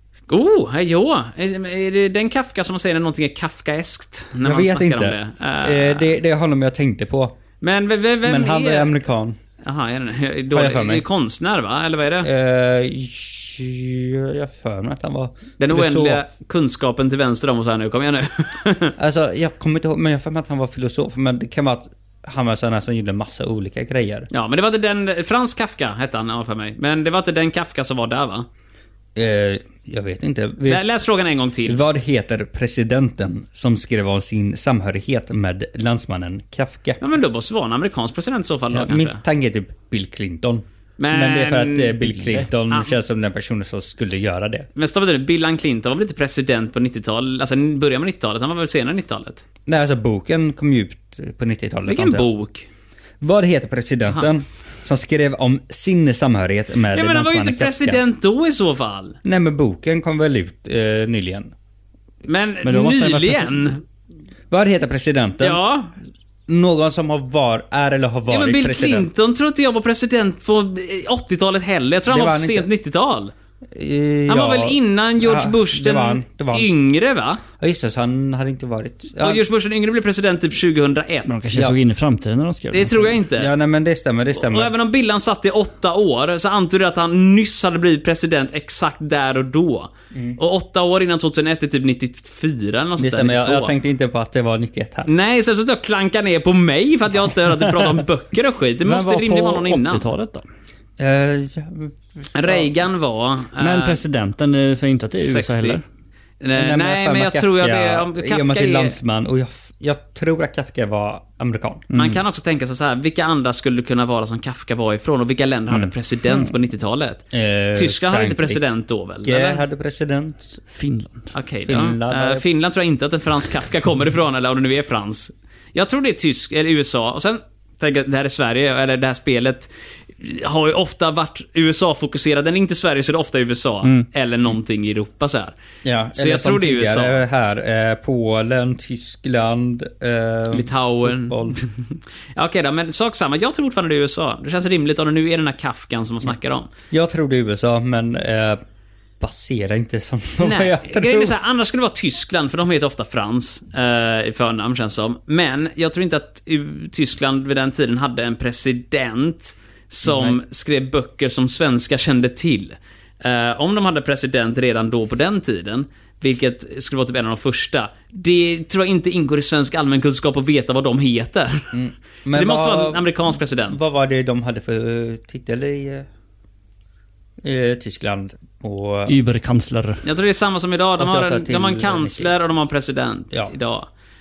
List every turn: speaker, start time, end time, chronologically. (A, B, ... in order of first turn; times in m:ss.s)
0:00.3-0:06.2 A
0:04.4-0:07.4 B
0:07.6-0:08.9 A
0:08.2-0:09.4 B
0:09.6-0:12.3 A
0:10.5-0:11.0 B
0:12.2-0:16.2 B
0:15.6-0:18.9 A
0:19.0-0:24.3 B
0:24.3-0:28.5 A
0:29.1-0:30.8 B
0:30.6-0:31.8 A
0:31.6-0:37.0 B
0:37.0-0:39.2 A
0:38.7-0:44.7 B
0:41.0-0:42.9 A
0:44.7-0:49.4 A
0:49.6-0:52.3 B
0:51.9-0:52.7 A
0:53.2-0:58.0 B
0:56.9-0:59.2 A
0:59.2-1:01.5 B
1:02.2-1:03.8 A
1:02.6-1:03.7 C
1:04.5-1:05.6 B
1:05.4-1:05.9 A
1:06.5-1:09.1 B
1:08.3-1:13.3 A
1:12.1-1:12.7 B
1:13.7-1:16.7 B
1:14.3-1:17.4 A
1:17.6-1:19.4 B
1:19.2-1:21.3 A
1:21.2-1:23.2 C
1:21.5-1:21.8 B
1:22.7-1:23.5 A
1:23.3-1:24.7 B
1:24.3-1:33.7 A
1:30.1-1:30.4 B
1:33.0-1:35.1 B
1:35.1-1:40.1 A
1:37.5-1:37.9 B
1:38.8-1:40.4 C
1:41.0-1:42.7 B
1:42.3-1:44.0 A
1:43.6-1:45.8 C
1:45.2-1:45.8 A
1:46.4-1:49.0 A
1:46.6-1:51.9 B
1:51.9-1:52.2 C
1:51.9-1:59.6 A
1:57.3-1:58.6 B
1:59.2-2:00.6 B
2:00.7-2:01.3 C
2:01.3-2:15.5 A
2:01.7-2:02.4 B
2:15.8-2:21.6 B
2:16.1-2:17.2 A
2:20.5-2:26.7 A
2:26.9-2:28.6 B
2:29.2-2:31.3 B
2:30.4-2:51.7 A
2:40.0-2:40.4 B
2:51.7-2:56.1 B
2:52.3-2:53.8 A
2:57.4-2:59.2 B
2:59.1-3:00.0 C
3:00.0-3:03.9 A
3:01.0-3:02.3 B